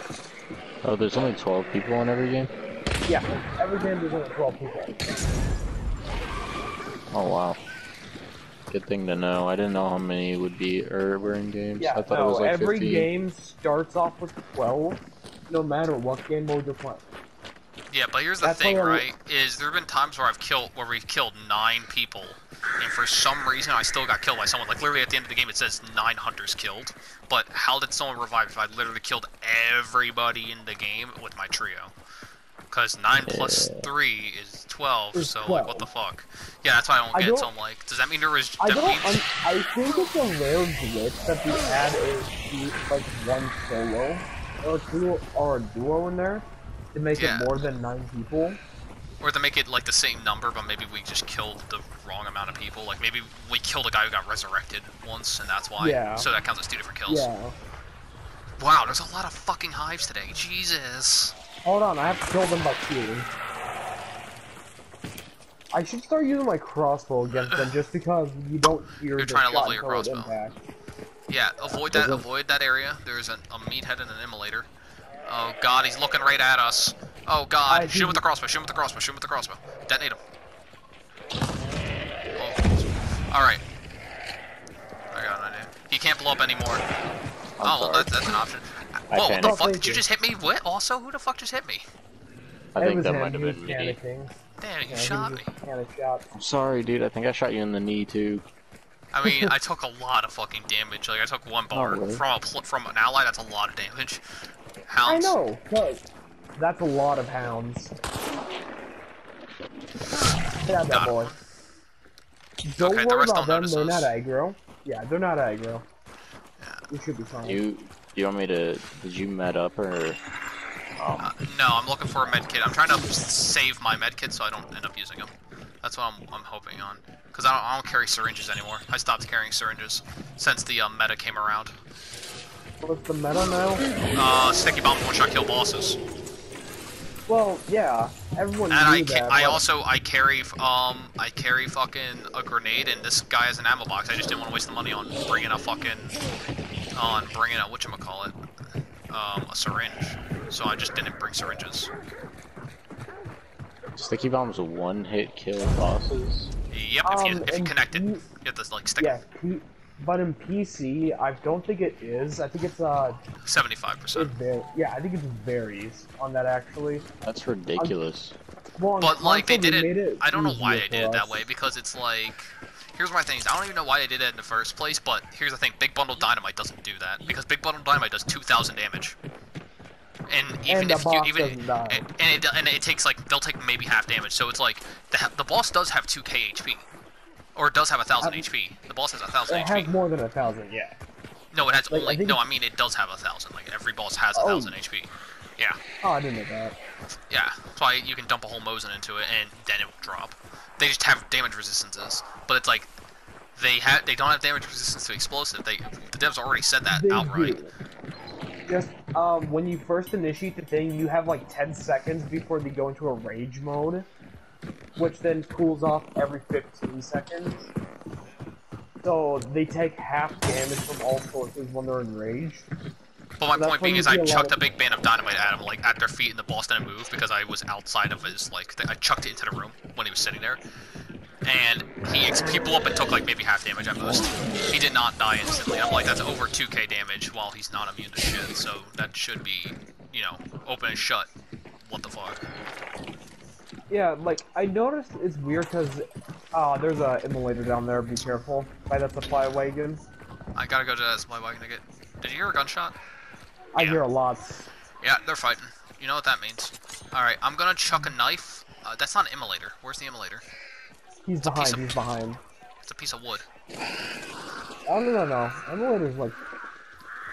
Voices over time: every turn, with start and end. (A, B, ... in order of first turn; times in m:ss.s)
0:00.8-0:02.5 A
0:03.1-0:05.0 B
0:07.1-0:07.6 A
0:08.7-0:13.1 A
0:11.8-0:17.0 B
0:17.9-0:31.9 C
0:18.4-0:19.1 B
0:32.7-0:39.2 C
0:33.2-0:33.9 A
0:35.1-0:35.9 B
0:37.1-0:37.5 B
0:38.6-0:48.6 B
0:47.2-0:47.7 C
0:49.2-0:57.3 C
0:55.8-0:56.3 B
0:57.1-0:57.6 B
0:58.6-1:01.4 C
1:01.6-1:03.3 B
1:05.7-1:10.6 B
1:07.4-1:07.8 C
1:09.2-1:10.3 C
1:11.3-1:14.7 C
1:11.7-1:12.2 B
1:15.3-1:20.2 C
1:17.7-1:18.2 B
1:22.4-1:23.6 C
1:25.1-1:26.8 C
1:27.6-1:28.4 A
1:27.6-1:31.9 C
1:29.1-1:29.6 A
1:29.4-1:30.0 B
1:32.8-1:34.0 A
1:32.8-1:34.3 B
1:34.6-1:35.5 C
1:34.9-1:36.2 B
1:36.3-1:38.4 A
1:39.1-1:44.2 C
1:39.2-1:39.5 B
1:41.7-1:42.2 B
1:41.8-1:42.2 A
1:44.9-1:45.4 C
1:45.0-1:46.0 B
1:46.6-1:47.9 B
1:50.6-1:51.3 B
1:50.8-1:51.4 C
1:52.6-1:55.8 B
1:52.8-1:54.1 C
1:56.9-1:57.6 B
1:57.4-2:00.2 A
2:01.0-2:01.3 A
2:01.2-2:11.8 C
2:12.8-2:13.9 B
2:14.2-2:16.0 C
2:17.3-2:19.6 B
2:18.7-2:26.2 C
2:26.9-2:28.3 C
2:29.1-2:31.9 C
2:34.0-2:36.5 A
2:36.7-2:39.2 C
2:37.0-2:38.2 B
2:39.0-2:43.2 B
2:43.4-2:44.3 C
2:44.2-2:47.0 B
2:47.2-2:48.4 A
2:48.8-2:51.4 B
2:49.0-2:59.2 C
3:00.3-3:06.9 C
3:00.7-3:02.0 B
3:07.6-3:09.9 C
3:08.2-3:08.4 B
3:09.5-3:11.0 B
3:11.5-3:15.8 C
3:11.9-3:12.4 B
3:14.4-3:14.7 B
3:16.0-3:16.8 B
3:17.3-3:22.9 C
3:23.6-3:27.6 C
3:26.9-3:27.7 B
3:28.7-3:34.1 B
3:35.0-3:37.7 B
3:39.0-3:42.7 B
3:43.4-3:50.6 C
3:43.6-3:44.5 B
3:51.4-4:01.3 C
4:01.8-4:02.4 C
4:03.9-4:10.0 B
4:10.6-4:13.0 C
4:13.7-4:14.7 B
4:15.0-4:20.4 C
4:21.3-4:22.4 B
4:21.4-4:22.0 C
4:22.8-4:23.5 C
4:24.9-4:26.4 B